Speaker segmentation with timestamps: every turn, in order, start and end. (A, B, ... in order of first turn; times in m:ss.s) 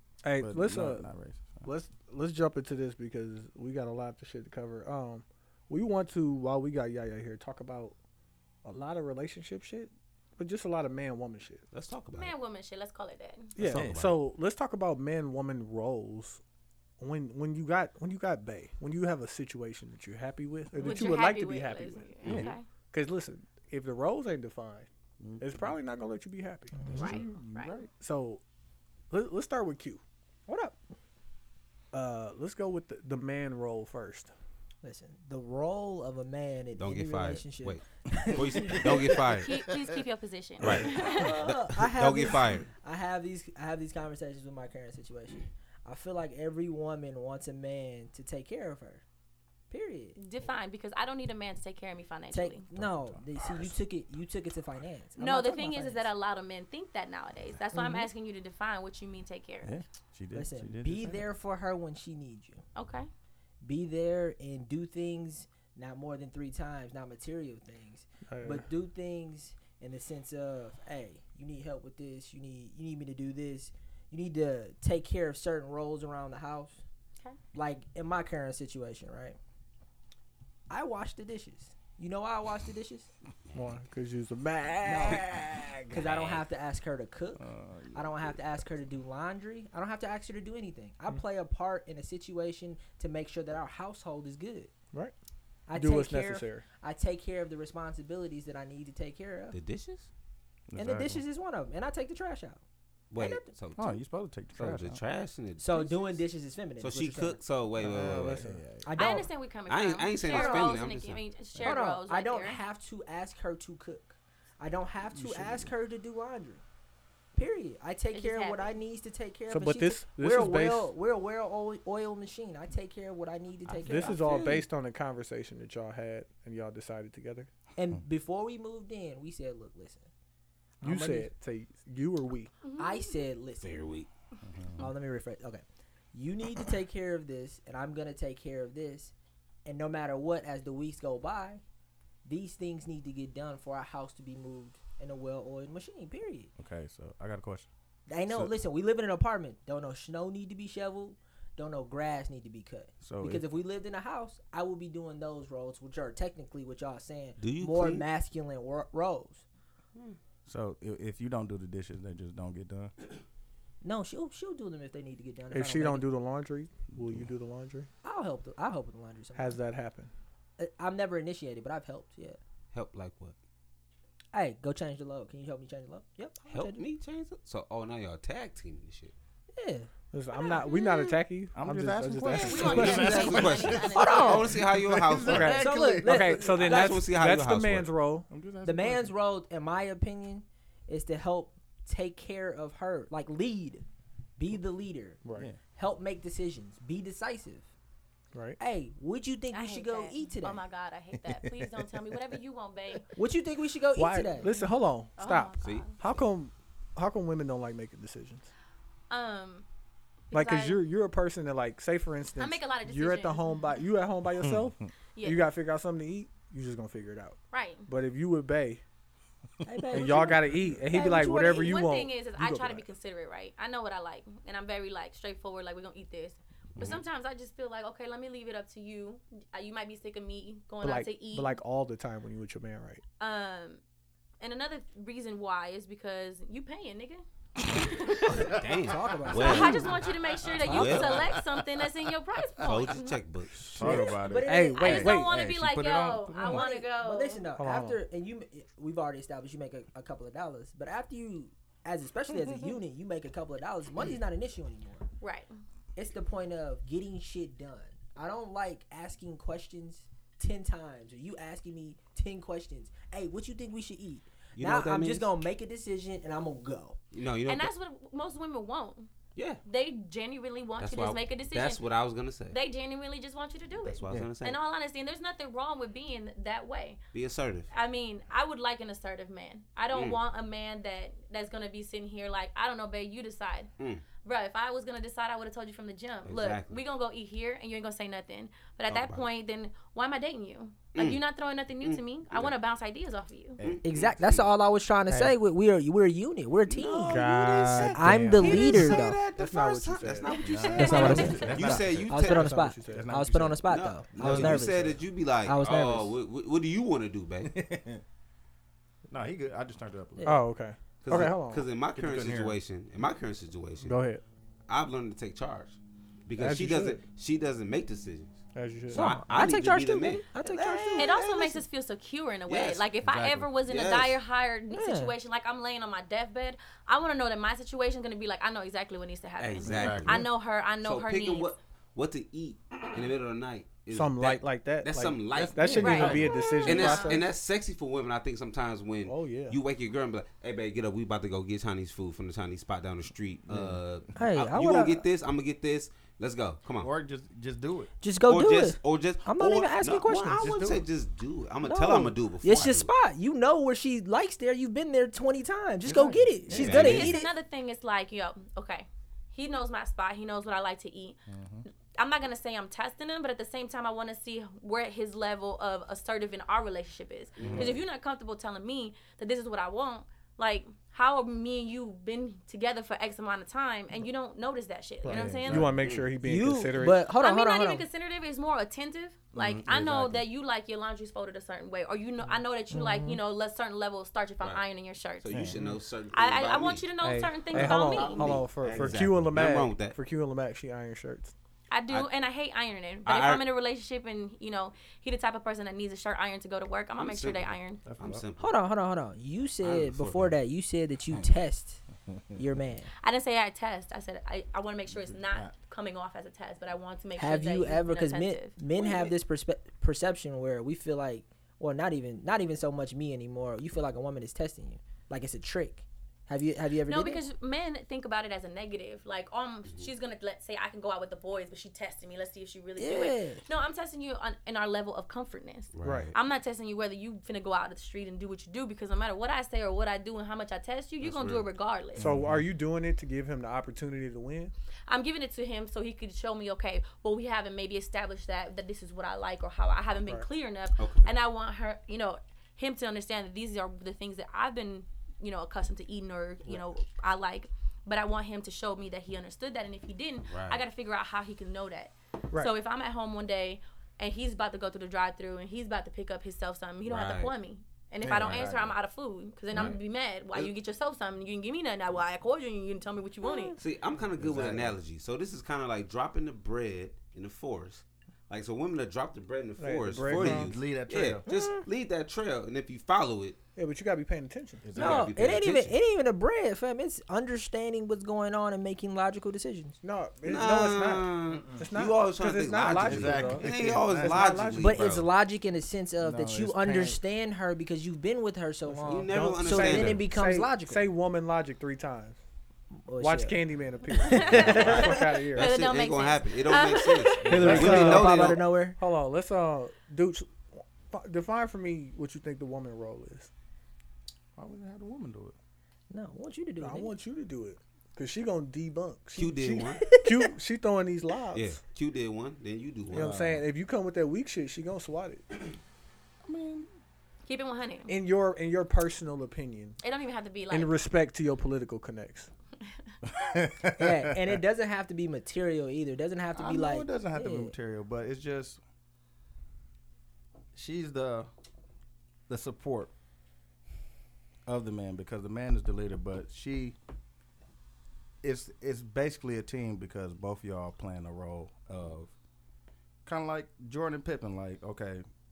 0:00.2-0:01.1 A
0:00.4-0:01.7 B
0:01.6-0:08.0 A
0:08.6-0:11.6 A
0:11.7-0:12.3 C
0:12.1-0:13.6 D
0:13.6-0:16.4 A
0:13.6-0:14.2 C
0:17.0-0:22.1 A
0:20.8-0:22.7 D
0:22.2-0:22.5 C
0:22.3-0:22.5 B
0:22.9-0:28.4 A
0:25.2-0:25.7 B
0:26.8-0:27.2 E
0:26.9-0:27.8 D
0:29.1-0:30.0 A
0:30.5-0:30.8 E
0:31.9-0:34.3 A
0:34.8-0:39.2 E
0:36.8-0:39.5 C
0:39.3-0:41.4 D
0:40.6-0:42.7 C
0:40.9-0:49.0 E
0:49.7-0:50.2 E
0:50.2-0:52.6 D
0:52.3-0:56.1 E
0:52.7-0:53.8 B
0:55.2-0:59.8 D
0:57.7-0:58.1 E
0:59.6-1:01.3 B
1:00.3-1:02.6 E
1:02.8-1:03.1 D
1:03.6-1:16.8 E
1:08.3-1:08.7 A
1:17.5-1:19.4 E
1:20.7-1:23.1 E
1:23.5-1:23.8 C
1:23.5-1:26.1 A
1:24.8-1:25.3 E
1:25.9-1:34.7 E
1:25.9-1:26.5 C
1:27.4-1:28.6 B
1:35.7-1:39.6 E
1:35.7-1:36.7 A
1:39.5-1:40.1 C
1:40.7-1:41.2 B
1:40.8-1:42.6 E
1:43.1-1:44.0 C
1:43.2-1:43.5 E
1:43.8-1:45.0 B
1:44.6-1:46.2 C
1:45.6-1:47.4 E
1:46.8-1:48.4 C
1:47.8-1:48.6 A
1:47.8-1:48.9 B
1:48.8-1:49.3 E
1:49.0-1:52.6 D
1:49.7-1:51.2 C
1:50.2-1:50.8 E
1:51.6-1:56.6 E
1:55.1-1:55.7 B
1:57.4-2:04.6 E
1:58.1-1:58.7 D
1:59.5-2:00.9 A
2:03.6-2:04.6 C
2:03.8-2:07.5 A
2:07.8-2:10.1 E
2:10.8-2:12.6 A
2:10.8-2:11.3 E
2:12.6-2:13.2 D
2:12.8-2:13.8 E
2:13.6-2:14.1 C
2:14.4-2:14.9 B
2:14.8-2:19.1 E
2:19.6-2:21.6 E
2:22.2-2:26.5 E
2:26.6-2:27.7 B
2:28.1-2:39.4 E
2:28.3-2:28.6 B
2:33.0-2:33.5 B
2:37.4-2:38.0 C
2:40.5-2:42.9 B
2:43.8-2:46.1 E
2:45.5-2:47.9 A
2:48.0-2:49.6 E
2:49.4-2:50.1 A
2:50.6-2:52.4 E
2:52.7-2:53.4 C
2:54.3-2:56.8 E
2:56.5-2:59.1 C
2:59.5-2:59.9 E
3:00.1-3:03.3 A
3:00.4-3:01.2 D
3:01.6-3:06.5 B
3:02.2-3:05.8 C
3:02.3-3:04.5 D
3:03.9-3:04.6 E
3:05.2-3:08.3 A
3:05.4-3:07.1 E
3:06.4-3:07.9 C
3:08.3-3:09.1 B
3:08.6-3:13.8 E
3:14.4-3:17.6 E
3:15.2-3:15.5 A
3:18.3-3:18.6 A
3:18.6-3:20.6 E
3:19.5-3:23.1 D
3:21.2-3:22.0 B
3:23.2-3:24.5 E
3:24.0-3:28.5 A
3:25.2-3:26.0 D
3:25.6-3:26.1 C
3:29.1-3:29.7 D
3:30.3-3:30.8 D
3:30.3-3:38.8 A
3:32.4-3:33.7 D
3:35.2-3:35.5 D
3:37.5-3:37.9 D
3:39.6-3:41.8 E
3:39.9-3:42.9 A
3:41.4-3:51.6 D
3:46.8-3:47.0 C
3:50.8-3:53.0 A
3:53.2-3:53.8 D
3:54.4-3:58.6 D
3:58.3-4:01.3 C
3:58.4-3:58.6 B
3:58.8-4:00.0 E
3:59.3-4:03.2 D
3:59.4-3:59.9 B
4:00.6-4:01.2 E
4:00.8-4:01.8 B
4:02.6-4:04.0 C
4:03.7-4:06.7 B
4:03.8-4:05.3 A
4:03.8-4:05.0 E
4:04.7-4:07.4 D
4:06.4-4:15.1 E
4:07.6-4:08.0 A
4:15.2-4:15.5 D
4:16.0-4:27.0 E
4:24.6-4:25.3 C
4:27.1-4:27.7 C
4:27.5-4:29.1 D
4:29.4-4:29.6 C
4:29.6-4:31.9 D
4:30.8-4:32.6 C
4:32.5-4:37.0 D
4:33.8-4:34.6 C
4:37.1-4:37.7 C
4:37.7-4:43.7 D
4:39.9-4:40.2 C
4:43.8-4:44.0 C
4:44.2-4:53.6 D
4:46.2-4:46.8 C
4:48.9-4:49.2 C
4:51.0-4:51.2 C
4:51.8-4:52.5 C
4:53.6-4:54.4 B
4:53.6-4:54.4 C
4:53.8-4:59.2 E
4:55.1-4:55.4 A
4:56.7-5:02.5 C
4:57.1-5:03.1 A
5:00.3-5:01.5 D
5:00.4-5:02.2 B
5:00.8-5:06.1 E
5:02.9-5:03.6 B
5:03.7-5:07.6 C
5:04.2-5:04.8 B
5:04.2-5:04.5 A
5:07.4-5:08.0 B
5:09.1-5:10.3 B
5:10.2-5:10.4 E
5:10.2-5:11.7 A
5:11.0-5:14.0 C
5:12.0-5:12.6 B
5:13.8-5:14.2 A
5:14.7-5:21.6 C
5:16.4-5:17.0 A
5:18.5-5:19.2 A
5:18.9-5:21.1 E
5:21.0-5:31.6 D
5:22.5-5:22.9 C
5:23.0-5:23.5 B
5:23.6-5:24.2 C
5:24.7-5:25.2 E
5:29.4-5:30.3 C
5:29.6-5:30.2 B
5:30.8-5:46.9 C
5:33.9-5:37.3 A
5:35.8-5:36.3 B
5:35.8-5:37.3 D
5:39.0-5:39.6 A
5:43.5-5:43.8 B
5:44.2-5:45.0 E
5:46.8-5:47.9 B
5:48.0-5:50.5 E
5:48.3-5:52.9 C
5:50.4-5:50.9 B
5:51.6-5:57.3 E
5:55.8-5:57.1 B
5:56.5-5:57.2 C
5:56.6-6:01.2 D
6:01.3-6:01.7 B
6:01.9-6:15.7 D
6:07.4-6:07.8 C
6:07.4-6:07.8 B
6:15.0-6:17.0 A
6:15.0-6:15.8 B
6:15.8-6:16.1 C
6:16.2-6:17.9 E
6:17.2-6:25.5 D
6:19.4-6:20.2 B
6:19.7-6:20.2 C
6:22.7-6:23.2 E
6:25.2-6:26.9 C
6:25.3-6:25.6 B
6:26.1-6:28.4 D
6:27.0-6:31.4 A
6:27.5-6:30.0 C
6:28.8-6:29.4 B
6:31.7-6:37.8 D
6:33.1-6:33.4 C
6:37.0-6:38.5 C
6:37.9-6:38.2 B
6:38.4-6:41.8 E
6:39.6-6:40.4 C
6:42.4-6:42.9 E
6:43.0-6:48.6 D
6:44.9-6:45.5 B
6:47.2-6:57.2 E
6:48.7-6:49.2 C
6:56.9-7:12.1 D
7:02.8-7:03.4 E
7:05.7-7:06.2 C
7:05.8-7:06.2 A
7:11.0-7:11.5 C
7:12.0-7:12.4 B
7:12.0-7:14.5 A
7:14.9-7:43.6 D
7:20.8-7:21.1 C
7:30.3-7:30.6 C
7:36.8-7:37.3 C
7:38.0-7:38.8 B
7:38.1-7:38.5 C
7:39.5-7:39.8 C
7:43.3-7:43.5 E
7:43.6-7:53.4 C
7:44.2-7:44.8 B
7:49.6-7:50.5 A
7:50.1-7:51.2 B
7:51.3-7:51.6 E
7:53.6-7:54.7 A
7:54.6-7:55.5 B
7:54.8-7:55.8 C
7:54.8-7:59.8 E
7:59.8-8:04.8 A
8:00.2-8:05.1 C
8:02.7-8:04.2 B
8:04.6-8:10.9 E
8:06.0-8:07.0 B
8:08.7-8:12.2 A
8:08.9-8:10.0 C
8:12.7-8:13.4 E
8:13.0-8:15.6 A
8:14.0-8:14.6 E
8:14.1-8:17.2 D
8:14.3-8:18.4 C
8:17.3-8:18.8 E
8:17.3-8:23.3 A
8:17.4-8:18.0 B
8:24.4-8:25.4 B
8:25.9-8:26.9 E
8:26.6-8:31.6 A
8:29.2-8:30.0 C
8:29.8-8:30.3 E
8:31.3-8:33.2 C
8:32.9-8:33.4 B
8:32.9-8:35.3 A
8:36.2-8:36.7 B
8:37.3-8:38.0 D
8:37.9-8:39.8 A
8:39.8-8:40.7 D
8:40.5-8:42.3 A
8:43.1-8:44.4 B
8:43.7-8:47.5 E
8:46.3-8:48.6 B
8:50.5-8:51.3 B
8:52.3-8:52.9 B
8:54.5-8:56.8 B
8:58.2-9:02.1 B
9:03.0-9:05.0 B